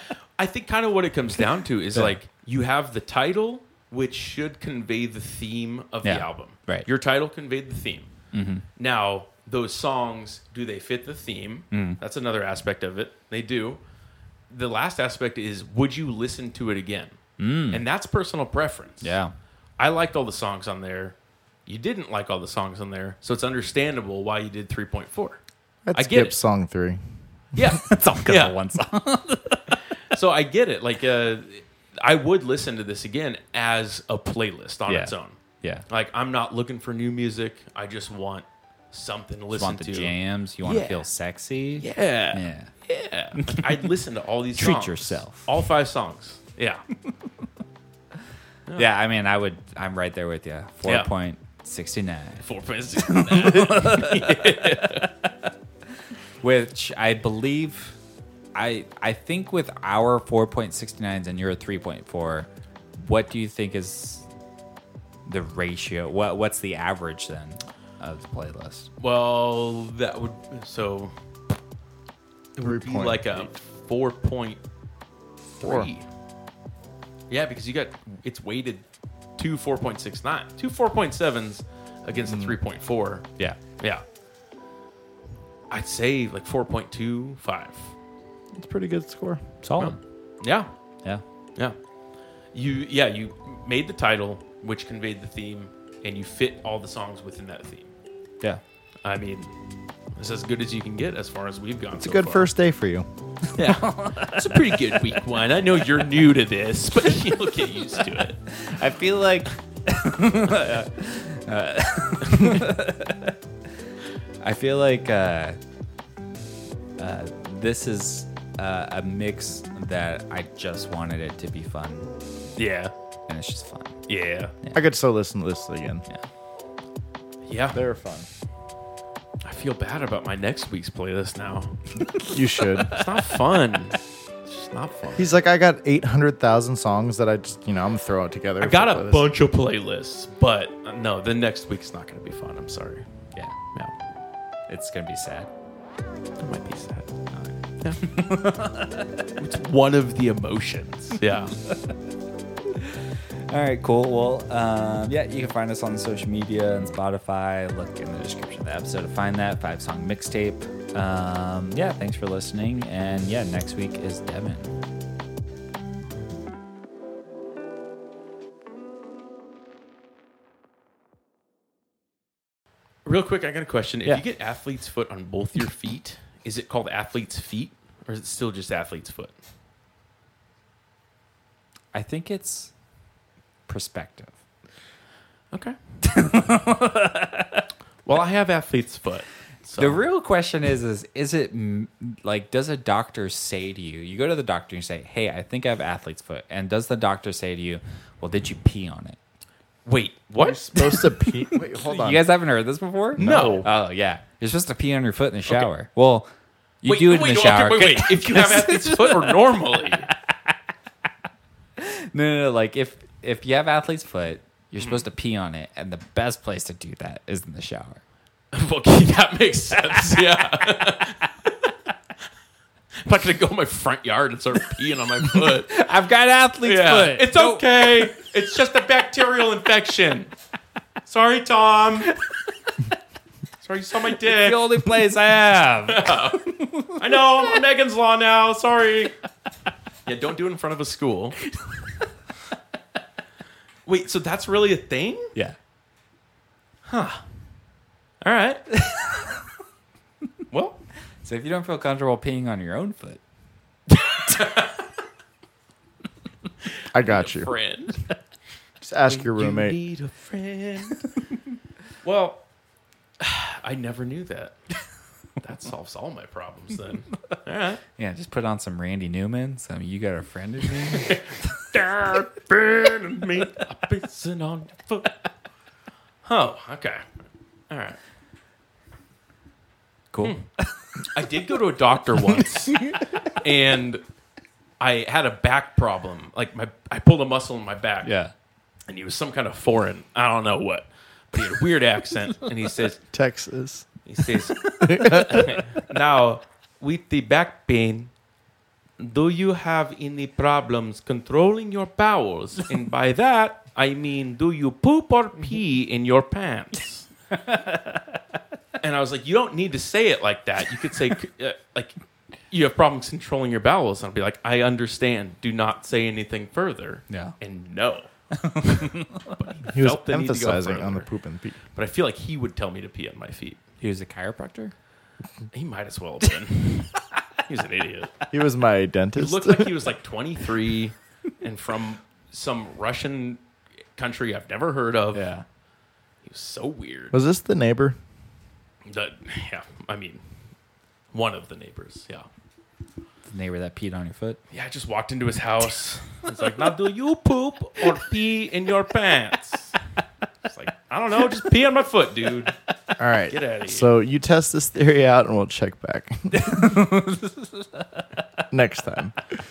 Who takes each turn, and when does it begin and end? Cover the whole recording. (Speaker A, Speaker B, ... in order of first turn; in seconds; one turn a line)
Speaker A: 0.4-8.1
Speaker B: 6.0-6.9
Speaker B: 8.3-8.7
Speaker A: 8.8-13.8
Speaker B: 11.7-12.0
Speaker A: 14.5-17.2
Speaker B: 17.4-17.8
Speaker A: 17.7-19.2
Speaker B: 19.0-19.3
Speaker A: 19.8-25.4
Speaker C: 25.9-27.0
Speaker A: 25.9-26.4
Speaker A: 27.6-28.6
Speaker B: 27.8-29.8
Speaker A: 30.1-41.1
Speaker B: 34.9-35.9
Speaker B: 39.5-42.7
Speaker A: 41.8-46.8
Speaker B: 43.4-43.9
Speaker B: 44.6-45.5
Speaker B: 48.8-52.5
Speaker A: 52.4-55.1
Speaker B: 53.0-55.3
Speaker B: 56.4-58.0
Speaker B: 58.5-64.3
Speaker B: 65.3-68.9
Speaker A: 69.0-71.1
Speaker A: 72.6-74.6
Speaker C: 72.6-73.5
Speaker A: 75.5-76.0
Speaker C: 75.6-75.9
Speaker A: 77.3-78.8
Speaker A: 79.4-83.3
Speaker C: 82.3-82.5
Speaker A: 83.8-84.0
Speaker A: 85.7-87.9
Speaker C: 88.5-89.5
Speaker B: 89.6-90.0
Speaker A: 89.8-90.7
Speaker A: 92.5-97.9
Speaker A: 99.0-99.5
Speaker A: 100.2-102.5
Speaker C: 102.0-103.1
Speaker B: 103.5-105.2
Speaker A: 103.5-108.4
Speaker B: 107.8-113.4
Speaker B: 114.4-115.6
Speaker B: 117.0-122.1
Speaker A: 122.6-122.9
Speaker B: 123.3-124.0
Speaker A: 124.1-124.5
Speaker C: 124.7-126.0
Speaker A: 127.5-127.8
Speaker C: 127.7-128.3
Speaker A: 129.4-131.8
Speaker B: 132.0-133.4
Speaker C: 132.2-133.0
Speaker A: 132.9-135.4
Speaker C: 135.2-139.3
Speaker A: 138.6-143.1
Speaker B: 144.7-145.5
Speaker A: 146.4-147.1
Speaker B: 147.3-149.4
Speaker A: 147.8-148.1
Speaker A: 149.4-151.6
Speaker B: 151.7-152.0
Speaker B: 152.7-164.8
Speaker A: 173.1-179.3
Speaker B: 181.9-182.7
Speaker B: 183.7-184.3
Speaker A: 185.5-185.8
Speaker B: 186.0-187.7
Speaker A: 188.1-190.0
Speaker B: 189.8-199.2
Speaker A: 199.8-201.1
Speaker C: 200.4-202.2
Speaker B: 201.5-206.3
Speaker C: 203.2-203.7
Speaker A: 203.2-203.7
Speaker B: 206.8-210.6
Speaker A: 206.8-210.1
Speaker B: 211.8-218.0
Speaker A: 214.8-215.1
Speaker A: 218.5-221.3
Speaker B: 219.9-221.1
Speaker A: 223.0-225.8
Speaker B: 225.3-228.1
Speaker A: 226.6-230.3
Speaker A: 231.1-232.2
Speaker A: 233.6-234.8
Speaker B: 234.2-237.5
Speaker A: 235.9-239.1
Speaker A: 240.1-241.4
Speaker A: 243.9-245.3
Speaker A: 246.8-247.2
Speaker A: 248.2-248.8
Speaker A: 250.5-250.8
Speaker B: 251.2-253.2
Speaker A: 253.9-254.8
Speaker C: 256.9-257.5
Speaker A: 257.0-258.1
Speaker C: 258.8-259.8
Speaker A: 259.1-261.1
Speaker A: 262.0-262.4
Speaker A: 263.2-264.6
Speaker A: 265.4-267.8
Speaker B: 268.0-271.2
Speaker A: 270.9-275.2
Speaker A: 276.2-277.0
Speaker A: 277.7-278.0
Speaker B: 280.1-280.8
Speaker A: 281.1-284.0
Speaker B: 282.2-283.1
Speaker A: 284.8-288.1
Speaker B: 288.0-288.3
Speaker A: 288.9-293.0
Speaker C: 293.1-293.9
Speaker A: 294.1-298.1
Speaker C: 294.8-295.6
Speaker A: 299.0-307.1
Speaker B: 307.3-308.2
Speaker A: 308.8-312.0
Speaker A: 312.5-318.1
Speaker B: 317.1-317.4
Speaker B: 318.3-319.4
Speaker A: 318.6-321.1
Speaker C: 319.7-321.6
Speaker A: 321.8-323.6
Speaker B: 323.8-324.7
Speaker A: 325.5-328.3
Speaker C: 328.3-329.9
Speaker A: 329.2-333.4
Speaker A: 334.0-335.3
Speaker B: 335.1-335.4
Speaker A: 336.2-337.2
Speaker C: 337.1-338.0
Speaker A: 338.9-340.2
Speaker A: 341.1-342.3
Speaker B: 343.3-344.4
Speaker A: 344.5-349.8
Speaker A: 350.5-352.6
Speaker C: 353.0-356.8
Speaker A: 353.3-353.9
Speaker B: 356.4-358.1
Speaker C: 358.5-359.2